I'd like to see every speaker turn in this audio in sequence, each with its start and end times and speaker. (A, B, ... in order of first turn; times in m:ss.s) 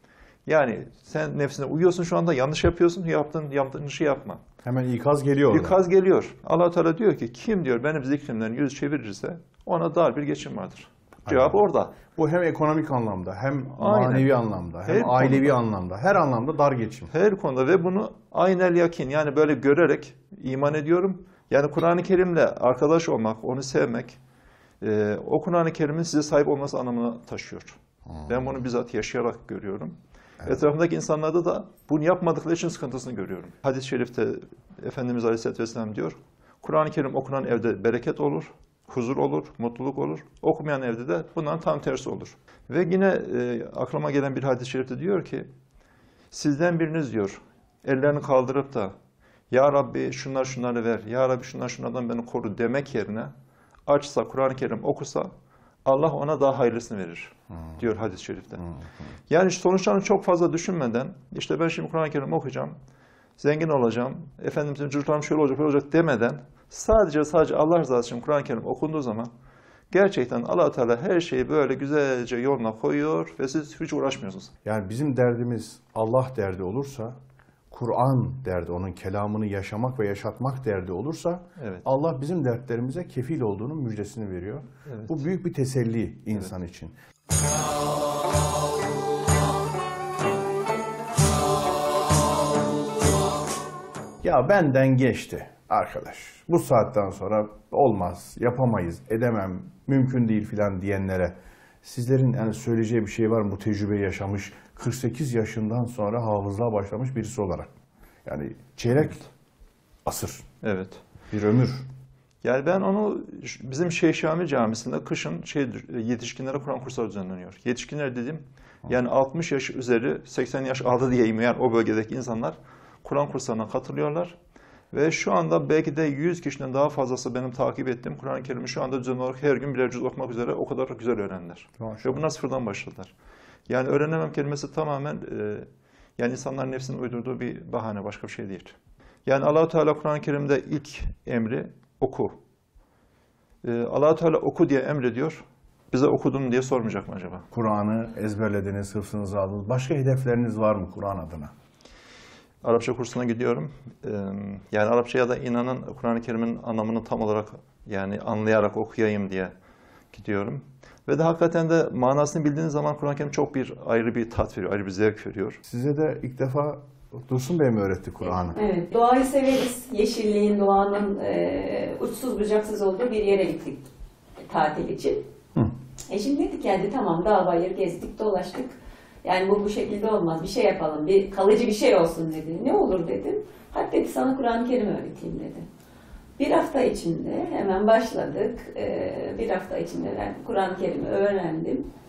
0:00.4-0:04.4 A
0:04.6-0:05.8 B
0:05.5-0:12.0 A
0:11.3-0:17.1 B
0:13.8-0:15.6 A
0:17.1-0:24.2 A
0:24.8-0:45.5 A
0:28.1-0:28.4 B
0:46.3-0:48.9 A
0:49.5-0:53.3 A
0:53.9-0:55.3 A
0:55.8-0:58.6 A
0:59.3-1:02.8 A
1:03.4-1:09.3 A
1:09.9-1:14.5 A
1:14.6-1:17.2 B
1:17.7-1:26.9 B
1:21.6-1:21.8 A
1:34.2-1:47.7 B
1:48.2-1:49.2 B
1:50.0-1:50.4 B
1:50.6-1:51.0 A
1:51.3-1:51.8 B
1:52.4-2:04.4 A
2:04.9-2:13.1 A
2:11.8-2:12.1 B
2:13.7-2:18.7 A
2:19.2-2:22.3 A
2:23.6-2:27.4 A
2:27.5-2:31.5 B
2:32.6-2:39.5 A
2:40.1-2:45.6 A
2:45.6-2:48.6 B
2:48.5-2:53.9 C
2:54.5-2:55.2 C
2:56.1-3:05.6 C
3:06.4-3:11.9 C